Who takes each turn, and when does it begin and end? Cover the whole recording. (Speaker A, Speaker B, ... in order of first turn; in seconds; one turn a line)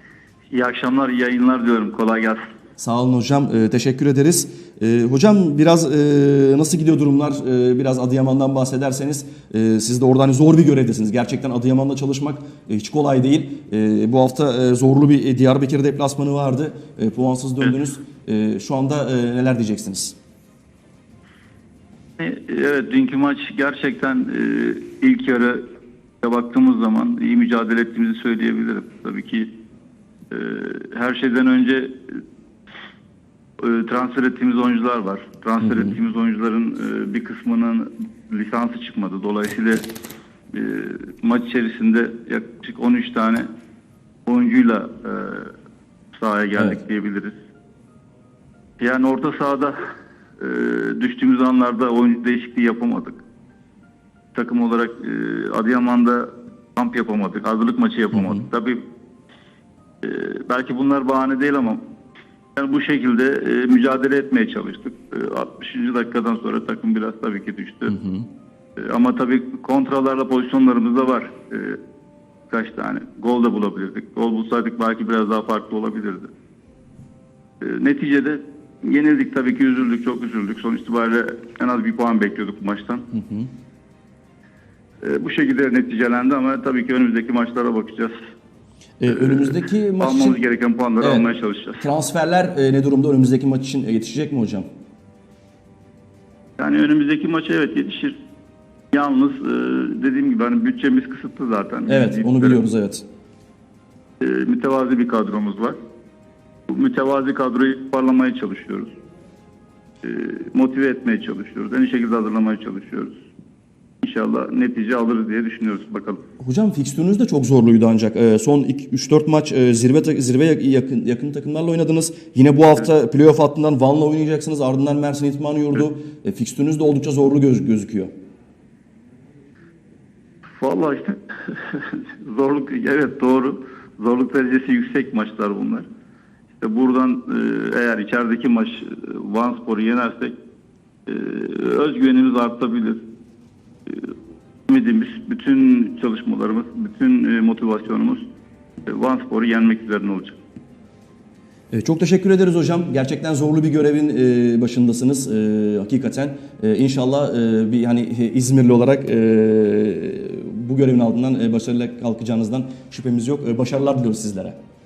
Speaker A: 0.5-2.4
Speaker B: 2.8-20.2
Speaker A: 22.2-25.6
Speaker A: 26.2-29.5
Speaker A: 30.3-32.0
Speaker A: 33.6-39.9
Speaker B: 35.6-35.9
Speaker A: 40.5-43.5
Speaker A: 44.3-45.5
Speaker A: 46.1-47.4
Speaker A: 48.8-49.7
Speaker A: 50.4-53.2
Speaker A: 54.4-58.8
Speaker B: 58.1-58.4
Speaker A: 60.0-61.8
Speaker A: 62.6-68.0
Speaker B: 67.9-68.3
Speaker A: 68.8-71.8
Speaker A: 72.5-76.3
Speaker A: 77.6-83.0
Speaker B: 83.1-83.5
Speaker A: 85.0-88.1
Speaker B: 89.0-90.4
Speaker A: 89.2-91.8
Speaker B: 91.0-91.3
Speaker B: 91.8-94.7
Speaker A: 96.6-98.2
Speaker A: 98.9-102.6
Speaker B: 101.9-103.0
Speaker A: 104.2-105.8
Speaker A: 106.7-108.9
Speaker A: 110.0-113.2
Speaker A: 114.0-116.2
Speaker B: 116.4-128.1
Speaker A: 130.6-135.9
Speaker A: 136.6-140.3
Speaker A: 141.1-143.0
Speaker A: 144.7-148.2
Speaker A: 148.9-150.4
Speaker B: 151.7-164.6